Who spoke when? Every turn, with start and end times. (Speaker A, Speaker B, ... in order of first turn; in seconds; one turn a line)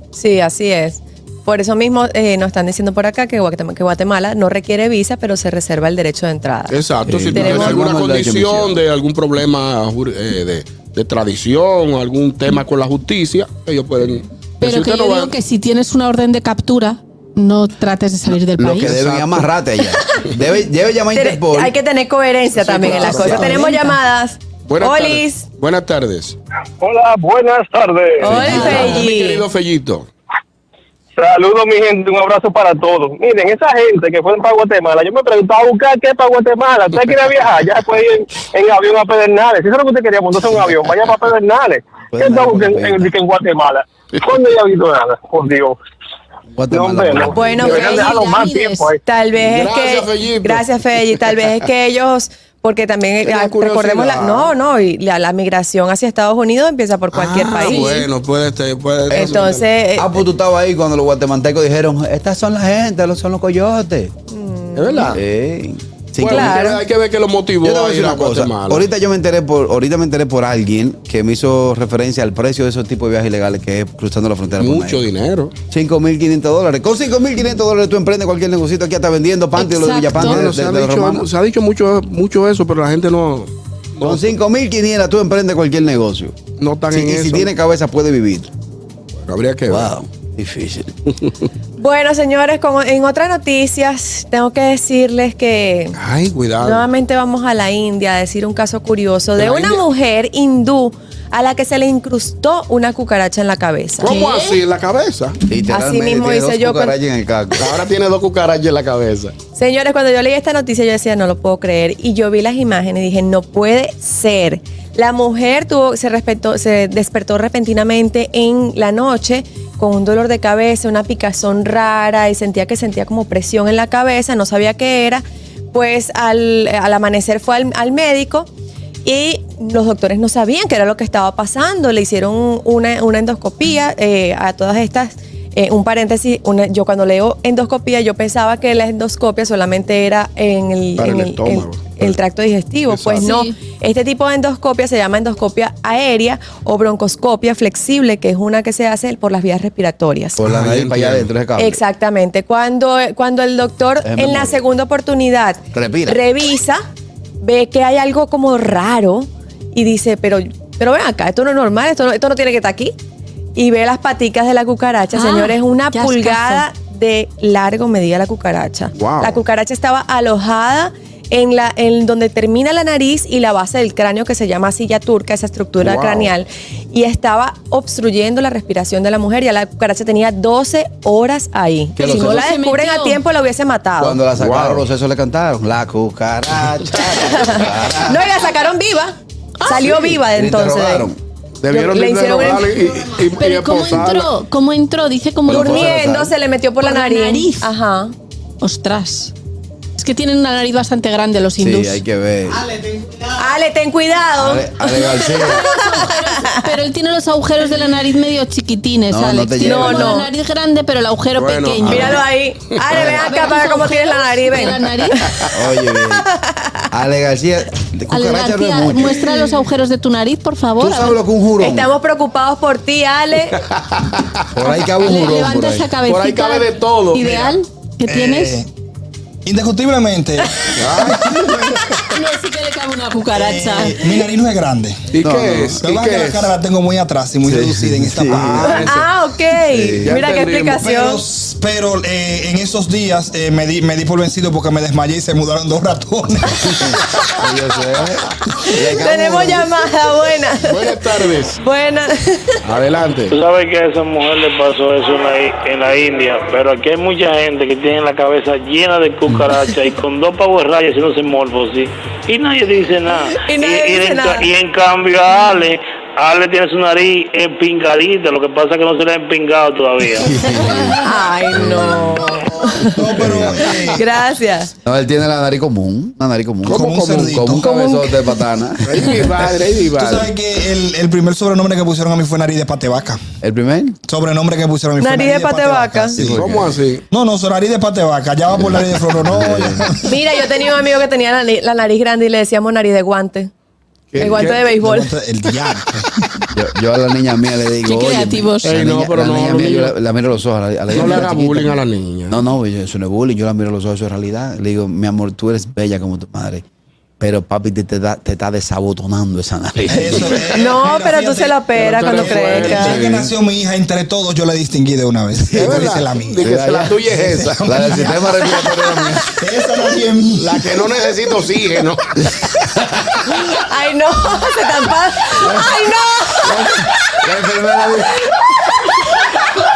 Speaker A: 0.1-6.8
Speaker B: 6.7-15.3
Speaker C: 7.1-8.8
Speaker A: 7.3-7.8
Speaker D: 14.6-18.9
Speaker C: 18.6-21.7
Speaker B: 18.8-19.4
Speaker A: 21.1-25.4
Speaker B: 22.5-23.3
Speaker C: 22.8-23.6
Speaker D: 23.2-24.0
Speaker B: 24.6-26.4
Speaker E: 26.8-28.9
Speaker D: 28.2-28.9
Speaker A: 28.2-29.4
Speaker B: 28.4-30.1
Speaker E: 31.1-45.8
Speaker C: 42.1-43.1
Speaker C: 46.5-47.8
Speaker E: 46.7-49.0
Speaker A: 47.3-47.9
Speaker D: 47.4-48.9
Speaker A: 49.0-58.1
Speaker B: 49.4-50.6
Speaker B: 53.2-54.5
Speaker B: 57.1-59.6
Speaker A: 59.1-60.2
Speaker C: 60.0-64.1
Speaker A: 64.3-65.2
Speaker B: 64.8-65.2
Speaker C: 65.1-66.6
Speaker B: 66.2-68.9
Speaker A: 66.2-66.8
Speaker C: 67.6-75.0
Speaker B: 74.6-75.5
Speaker C: 75.7-81.3
Speaker D: 79.5-80.4
Speaker B: 80.2-84.2
Speaker C: 84.0-86.3
Speaker B: 86.6-87.5
Speaker C: 86.9-88.5
Speaker B: 89.2-89.9
Speaker C: 89.7-90.9
Speaker A: 91.8-96.0
Speaker B: 96.0-96.9
Speaker A: 96.6-104.2
Speaker B: 99.3-99.8
Speaker B: 104.0-105.4
Speaker D: 104.0-104.6
Speaker C: 105.5-107.7
Speaker A: 105.7-107.0
Speaker B: 107.6-109.3
Speaker A: 109.5-128.5
Speaker A: 129.0-150.4
Speaker B: 141.0-142.2
Speaker B: 142.9-143.3
Speaker D: 143.2-143.5
Speaker C: 150.4-151.8
Speaker B: 150.4-151.3
Speaker A: 151.6-156.8
Speaker C: 154.0-154.6
Speaker C: 155.7-156.2
Speaker A: 157.4-162.9
Speaker A: 163.6-184.2
Speaker D: 165.1-166.6
Speaker B: 168.9-169.4
Speaker B: 175.8-176.3
Speaker C: 182.0-182.5
Speaker D: 182.0-183.2
Speaker C: 184.0-188.2
Speaker B: 184.3-184.8
Speaker A: 187.0-191.1
Speaker D: 189.6-189.8
Speaker C: 190.0-191.2
Speaker B: 191.6-194.3
Speaker A: 191.7-192.9
Speaker D: 193.3-196.0
Speaker C: 195.5-196.3
Speaker A: 195.5-198.1
Speaker D: 196.8-197.7
Speaker D: 198.6-199.3
Speaker D: 200.0-202.0
Speaker C: 201.6-202.7
Speaker A: 203.3-206.5
Speaker C: 204.3-205.6
Speaker D: 205.2-212.2
Speaker C: 209.1-210.2
Speaker A: 209.6-210.3
Speaker B: 211.4-212.2
Speaker A: 211.8-216.8
Speaker C: 211.8-212.2
Speaker B: 212.9-213.1
Speaker D: 213.0-215.2
Speaker C: 215.5-216.3
Speaker C: 216.9-219.2
Speaker D: 218.1-221.2
Speaker C: 220.8-221.9
Speaker A: 221.6-223.6
Speaker B: 223.9-224.3
Speaker C: 224.5-225.9
Speaker D: 224.7-228.5
Speaker B: 226.1-227.6
Speaker F: 228.1-228.7
Speaker F: 229.4-232.0
Speaker B: 230.8-231.3
Speaker D: 232.1-234.0
Speaker F: 233.3-235.0
Speaker B: 235.1-236.6
Speaker C: 235.2-235.8
Speaker F: 235.8-238.7
Speaker C: 237.4-238.7
Speaker B: 238.3-239.1
Speaker A: 238.6-241.2
Speaker C: 239.7-240.1
Speaker B: 240.0-240.8
Speaker F: 240.7-246.9
Speaker C: 246.8-249.7
Speaker A: 248.8-252.5
Speaker B: 250.7-251.6
Speaker B: 252.6-253.3
Speaker G: 253.3-270.4
Speaker A: 263.3-264.5
Speaker C: 270.1-271.0
Speaker A: 270.9-273.2
Speaker C: 271.5-272.2
Speaker F: 272.9-274.0
Speaker C: 273.2-273.7
Speaker A: 273.9-274.7
Speaker C: 274.8-279.2
Speaker B: 276.6-277.4
Speaker F: 276.7-277.7
Speaker A: 277.5-278.4
Speaker B: 278.8-280.3
Speaker F: 280.0-283.2
Speaker C: 283.4-284.0
Speaker F: 284.1-286.2
Speaker A: 285.0-286.2
Speaker C: 286.1-286.8
Speaker B: 286.2-287.0
Speaker F: 287.1-290.1
Speaker C: 288.5-289.9
Speaker A: 290.0-293.5
Speaker B: 294.1-294.7
Speaker A: 294.1-295.3
Speaker F: 294.3-296.4
Speaker C: 296.5-301.8
Speaker D: 297.8-298.8
Speaker B: 298.6-299.9
Speaker B: 300.9-302.4
Speaker C: 302.3-306.6
Speaker C: 307.2-310.4
Speaker F: 309.9-318.3
Speaker A: 310.5-313.1
Speaker B: 311.8-313.0
Speaker C: 312.8-313.3
Speaker C: 315.5-316.9
Speaker B: 315.5-317.9
Speaker C: 317.6-319.2
Speaker A: 318.5-319.2
Speaker F: 319.4-320.6
Speaker B: 320.4-322.1
Speaker A: 323.3-326.9
Speaker C: 325.4-325.9
Speaker C: 326.4-328.2
Speaker A: 328.3-329.2